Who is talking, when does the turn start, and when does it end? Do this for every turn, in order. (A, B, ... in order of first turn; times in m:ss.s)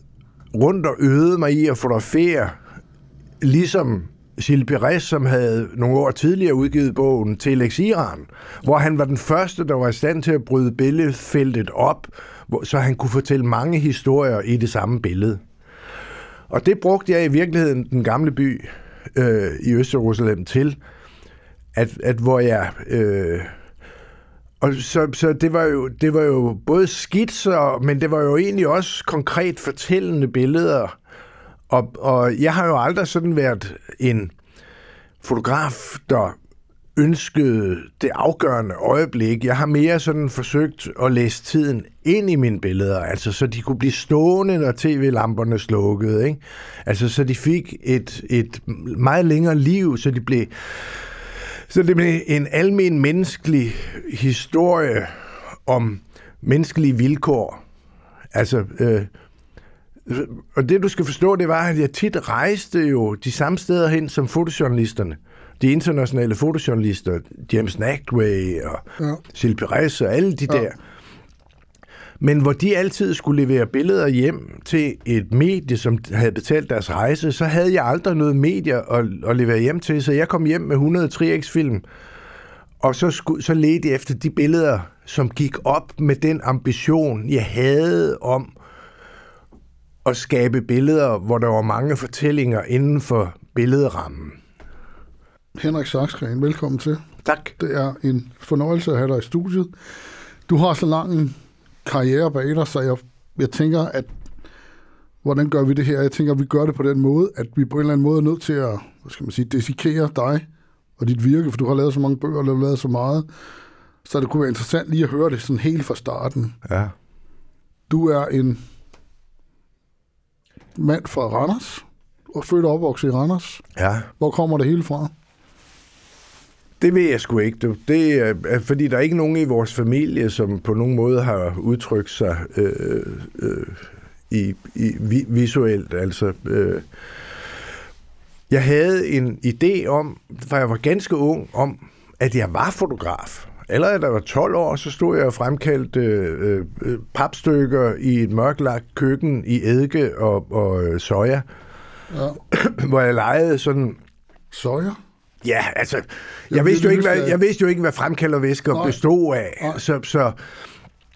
0:00.5-0:02.6 A
0:03.4-0:15.4 A
0:16.5-0:20.8 A
0:21.7-0:23.6 A
0:24.6-0:31.0 A
0:31.7-0:34.3 A
0:35.2-0:36.4 A
0:37.0-0:57.6 A
0:58.3-0:59.1 A
1:00.1-1:10.8 A
1:12.2-1:21.8 A
1:22.8-1:28.5 A
1:30.0-1:34.4 A
1:35.6-1:37.0 B
1:37.2-1:37.5 A
1:37.6-1:39.8 B
1:40.5-1:44.1 B
1:45.2-1:50.5 B
1:51.0-1:53.3 B
1:54.0-1:56.6 B
1:56.6-1:56.9 A
1:57.9-1:58.6 B
2:00.8-2:03.6 B
2:03.8-2:04.1 A
2:04.2-2:05.1 B
2:06.8-2:16.9 A
2:18.5-2:31.5 A
2:32.1-2:32.4 B
2:32.5-2:34.0 A
2:34.5-2:35.0 B
2:35.4-2:40.4 A
2:36.5-2:37.4 B
2:38.7-2:39.0 B